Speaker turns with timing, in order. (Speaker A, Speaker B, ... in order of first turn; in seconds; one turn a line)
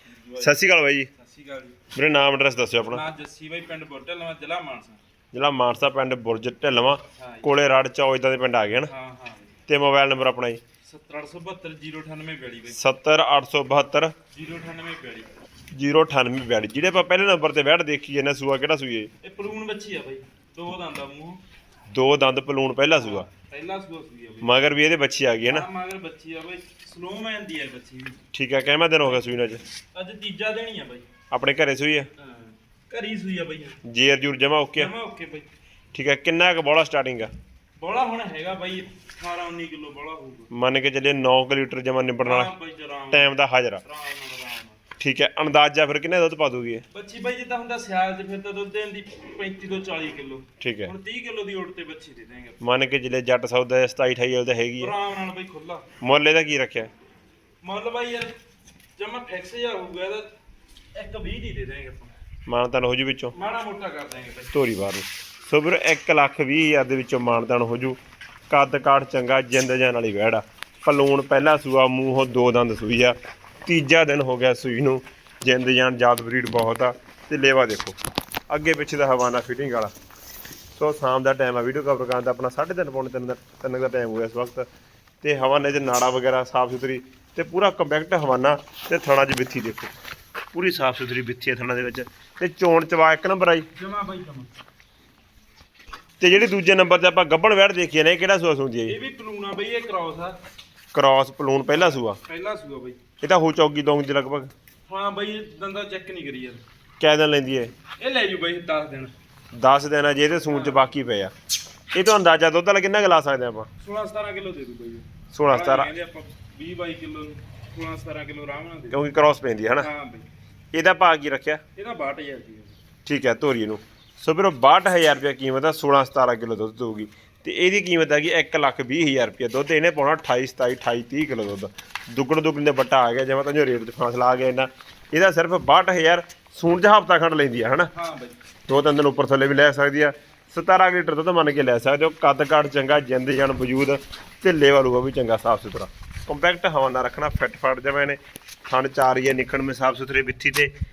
Speaker A: 0.1-0.5
Speaker B: 0.4-1.1
Speaker A: 1.1-1.8
Speaker B: 1.9-3.0
Speaker A: 2.8-5.0
Speaker B: 5.3-8.9
Speaker A: 7.2-7.5
Speaker A: 8.9-9.5
Speaker B: 9.7-10.6
Speaker A: 10.8-12.8
Speaker B: 12.7-14.1
Speaker A: 14.3-15.3
Speaker B: 15.7-19.1
Speaker A: 19.2-21.4
Speaker B: 21.9-23.3
Speaker A: 22.9-24.5
Speaker B: 24.4-25.6
Speaker A: 25.4-28.2
Speaker B: 28.3-29.6
Speaker A: 29.9-31.1
Speaker B: 31.3-32.1
Speaker A: 32.2-33.8
Speaker B: 33.8-34.9
Speaker A: 34.8-35.5
Speaker B: 35.9-37.3
Speaker A: 37.8-40.5
Speaker B: 40.5-42.5
Speaker A: 42.2-44.8
Speaker B: 43.1-43.8
Speaker B: 45.0-46.8
Speaker A: 46.9-52.6
Speaker B: 50.6-50.9
Speaker B: 52.6-54.9
Speaker A: 54.8-55.9
Speaker B: 56.0-56.9
Speaker A: 57.6-58.4
Speaker A: 59.0-60.3
Speaker A: 60.9-62.1
Speaker B: 62.5-63.3
Speaker A: 63.3-64.5
Speaker B: 64.5-68.0
Speaker B: 68.5-78.0
Speaker B: 78.5-79.9
Speaker B: 80.8-84.7
Speaker B: 85.2-89.9
Speaker B: 90.5-93.7
Speaker A: 93.7-94.5
Speaker B: 96.2-99.0
Speaker A: 98.9-100.4
Speaker B: 100.9-102.2
Speaker A: 101.7-103.0
Speaker B: 103.2-104.5
Speaker A: 104.9-106.6
Speaker B: 107.0-107.7
Speaker A: 108.0-109.1
Speaker B: 109.5-111.3
Speaker A: 110.5-110.9
Speaker B: 111.9-113.7
Speaker A: 113.8-119.0
Speaker B: 115.3-115.9
Speaker B: 118.9-119.9
Speaker A: 119.8-120.2
Speaker B: 120.7-121.6
Speaker A: 121.8-122.8
Speaker B: 123.0-137.9
Speaker A: 137.9-138.4
Speaker B: 138.7-150.7